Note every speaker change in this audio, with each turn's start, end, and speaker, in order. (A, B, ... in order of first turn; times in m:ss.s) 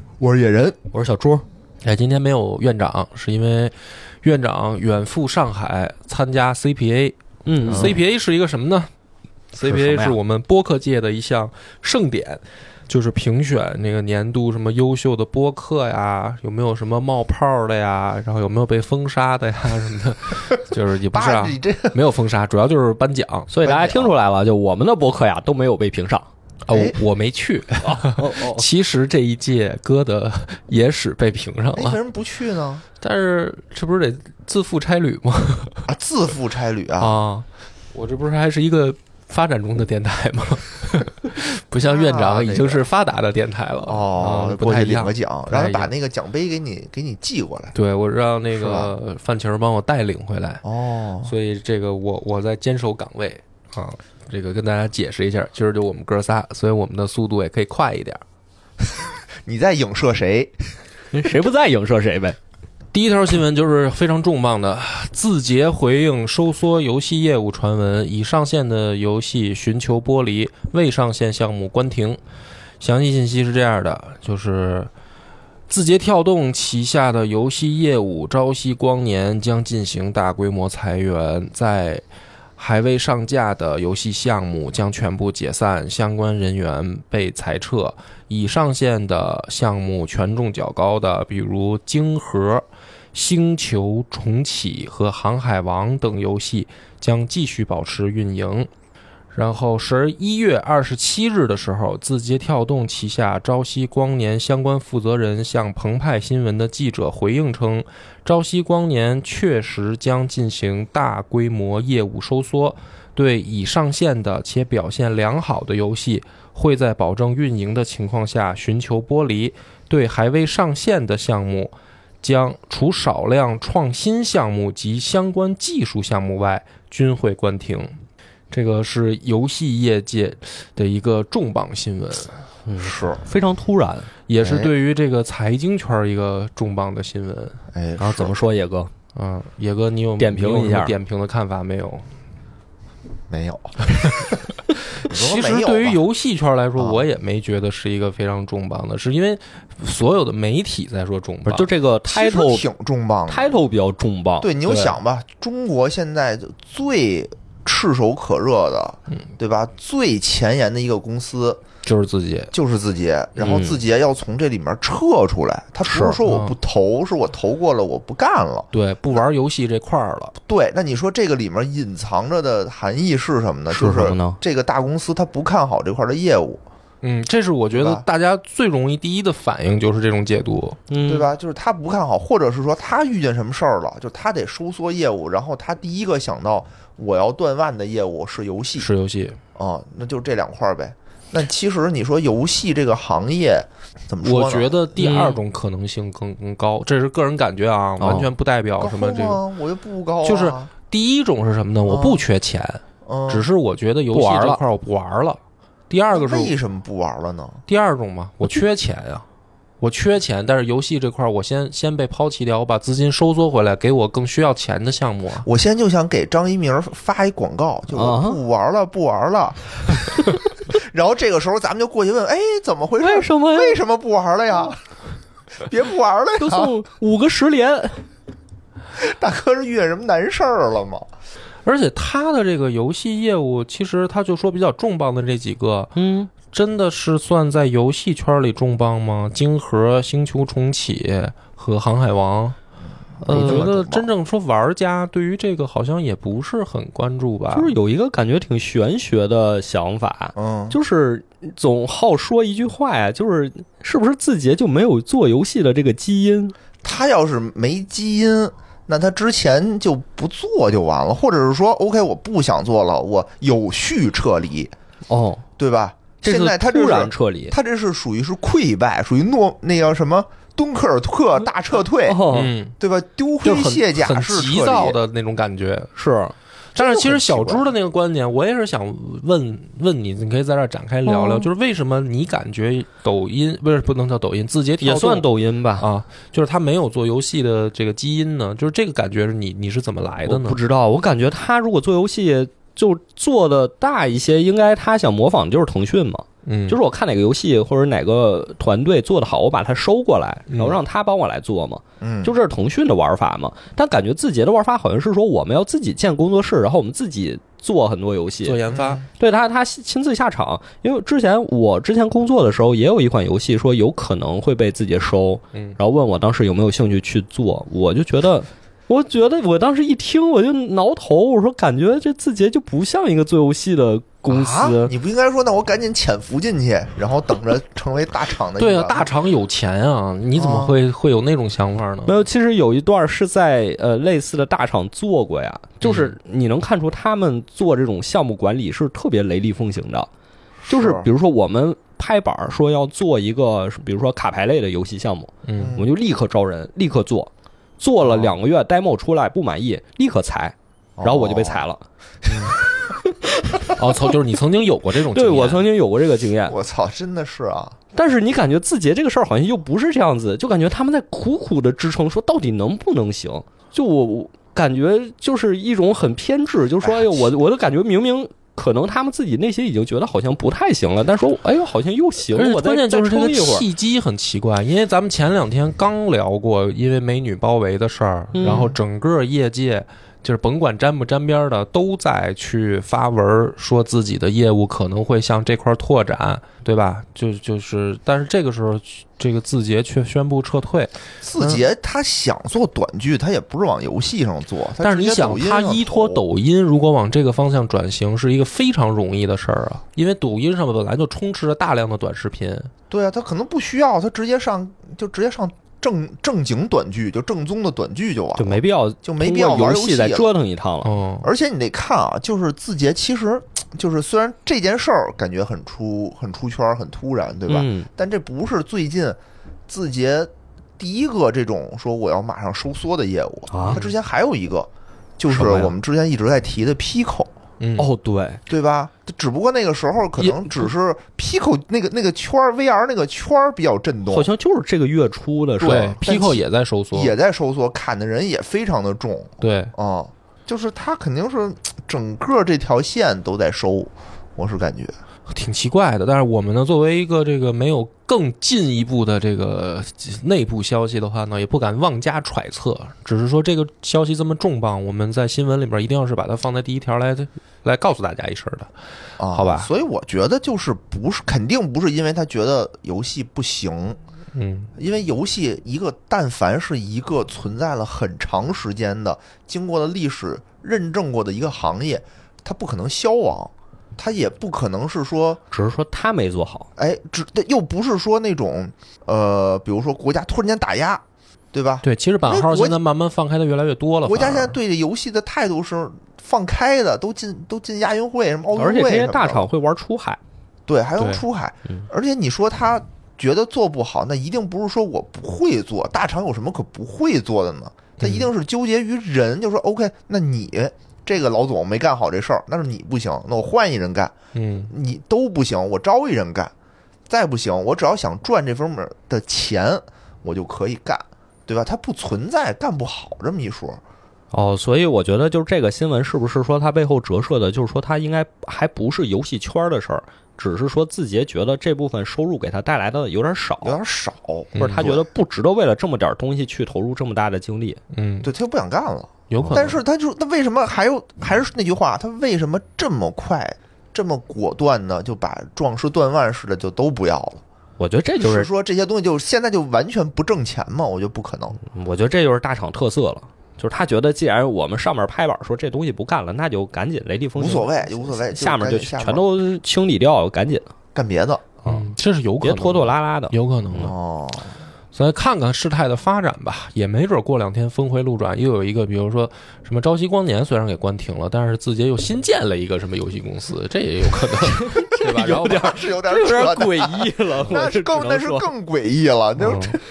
0:00.2-0:00.8 A
0:00.9-0:01.4 B
0:01.8-0:08.9 C
0:07.4-0:08.0 B
0:07.7-0:08.0 A
0:09.5-0:23.5 C
0:09.6-0:10.2 B
0:21.1-0:22.0 A
0:23.5-0:26.3 B
0:23.6-0:24.1 A
0:26.6-0:32.0 C
0:26.7-0:27.0 A
0:27.8-0:28.6 B
0:31.7-0:32.8 A
0:33.0-0:35.8 C
0:35.9-0:37.1 A
0:37.0-0:45.9 C
0:41.9-0:42.8 A
0:43.8-0:47.7 A
0:47.7-0:50.6 C
0:48.5-0:48.9 A
0:50.6-0:51.3 A
0:51.2-0:58.2 C
0:59.4-1:00.6 A
1:01.1-1:02.4 B
1:02.9-1:12.2 C
1:12.8-1:14.9 C
1:15.7-1:22.0 C
1:22.6-1:38.7 C
1:39.3-2:08.0 C
2:08.5-2:12.4 C
2:12.6-2:14.1 B
2:12.8-2:13.2 A
2:14.3-2:17.6 C
2:14.4-2:14.7 A
2:17.7-2:18.3 A
2:18.0-2:18.9 B
2:19.1-2:22.1 C
2:20.2-2:20.9 B
2:23.3-2:24.4 A
2:25.0-2:31.7 C
2:25.0-2:26.0 A
2:26.8-2:27.0 A
2:31.4-2:32.7 B
2:32.1-2:33.5 A
2:33.3-2:34.5 B
2:34.4-2:41.6 A
2:34.6-2:35.0 C
2:41.8-2:42.5 C
2:42.5-2:49.2 A
2:43.4-2:43.8 B
2:45.8-2:46.5 C
2:48.7-2:50.3 C
2:50.4-2:56.6 A
2:53.7-2:54.4 B
2:57.0-3:00.8 C
2:57.7-2:58.0 A
3:00.9-3:01.3 B
3:01.0-3:08.9 A
3:08.8-3:09.4 C
3:09.6-3:14.8 A
3:14.2-3:19.4 C
3:15.0-3:15.4 B
3:18.0-3:18.3 B
3:18.8-3:20.7 A
3:20.2-3:26.5 C
3:21.8-3:22.2 A
3:23.0-3:23.5 A
3:24.2-3:24.6 B
3:26.1-3:27.6 A
3:27.7-3:29.2 C
3:29.8-3:35.5 C
3:35.4-3:44.8 A
3:37.9-3:38.4 B
3:43.0-3:43.8 B
3:45.6-3:46.7 A
3:46.4-3:48.1 B
3:49.0-3:51.1 A
3:51.6-4:02.6 C
3:56.0-3:56.3 B
4:03.2-4:04.1 A
4:03.2-4:07.8 C
4:03.3-4:03.7 B
4:07.5-4:16.5 B
4:10.4-4:10.8 A
4:16.8-4:24.7 A
4:25.1-4:25.4 B
4:25.6-4:35.0 A
4:26.2-4:27.6 B
4:32.0-4:32.5 B
4:32.3-4:32.7 C
4:33.4-4:35.9 C
4:36.0-4:36.3 B
4:36.7-4:45.3 C
4:36.8-4:37.6 A
4:41.0-4:41.5 B
4:44.8-4:45.9 B
4:45.8-4:50.6 C
4:50.3-5:08.6 B
4:56.4-4:56.8 C
5:00.5-5:00.8 C
5:02.0-5:02.4 A
5:08.4-5:09.0 C
5:08.7-5:09.0 A
5:09.2-5:24.9 B
5:15.5-5:15.8 C
5:24.3-5:29.1 A
5:28.6-5:32.2 C
5:30.4-5:30.7 A
5:32.0-5:40.1 B
5:35.8-5:36.1 C
5:40.6-5:41.1 A
5:40.7-5:53.7 B
5:45.4-5:45.8 C
5:45.6-5:45.9 A
5:48.0-5:48.3 A
5:51.0-5:51.6 A
5:52.2-5:52.6 A
5:53.7-5:55.6 C
5:55.1-5:56.6 B
5:56.4-5:57.8 A
5:57.9-6:13.6 B
6:06.8-6:07.3 A
6:12.3-6:31.6 C
6:18.3-6:18.7 B
6:31.2-6:36.2 A
6:34.8-6:42.7 C
6:42.9-6:50.3 A
6:48.4-6:50.9 B
6:50.8-6:51.3 C
6:51.2-7:07.3 A
6:57.5-6:57.9 B
7:03.5-7:03.8 B
7:05.3-7:05.7 C
7:07.6-7:07.9 C
7:07.8-7:08.4 B
7:08.5-7:14.3 A
7:10.2-7:10.7 C
7:14.1-7:16.0 B
7:15.6-7:24.9 A
7:15.6-7:17.1 C
7:19.4-7:19.7 C
7:25.3-7:38.7 C
7:39.2-7:44.0 A
7:39.3-7:39.7 C
7:44.3-7:44.7 C
7:44.8-7:55.4 A
7:55.5-7:56.7 B
7:56.8-8:02.8 A
8:01.8-8:04.6 C
8:04.0-8:09.5 A
8:08.6-8:10.2 B
8:10.7-8:24.1 A
8:18.0-8:18.3 C
8:24.3-8:24.7 C
8:24.7-8:26.5 A
8:27.1-8:33.8 A
8:34.3-8:43.8 B
8:43.6-8:45.1 A
8:44.5-8:44.9 C
8:44.6-8:47.8 B
8:47.9-8:48.3 C
8:48.2-8:57.4 A
8:49.3-8:49.8 C
8:57.8-8:58.5 B
8:58.2-9:01.6 A
9:01.7-9:10.7 B
9:07.4-9:09.2 A
9:10.9-9:11.5 A
9:11.6-9:11.9 B
9:11.6-9:13.9 C
9:12.4-9:13.9 B
9:13.8-9:14.6 A
9:14.9-9:25.7 C
9:24.5-9:28.5 B
9:25.0-9:29.8 A
9:29.4-9:29.8 C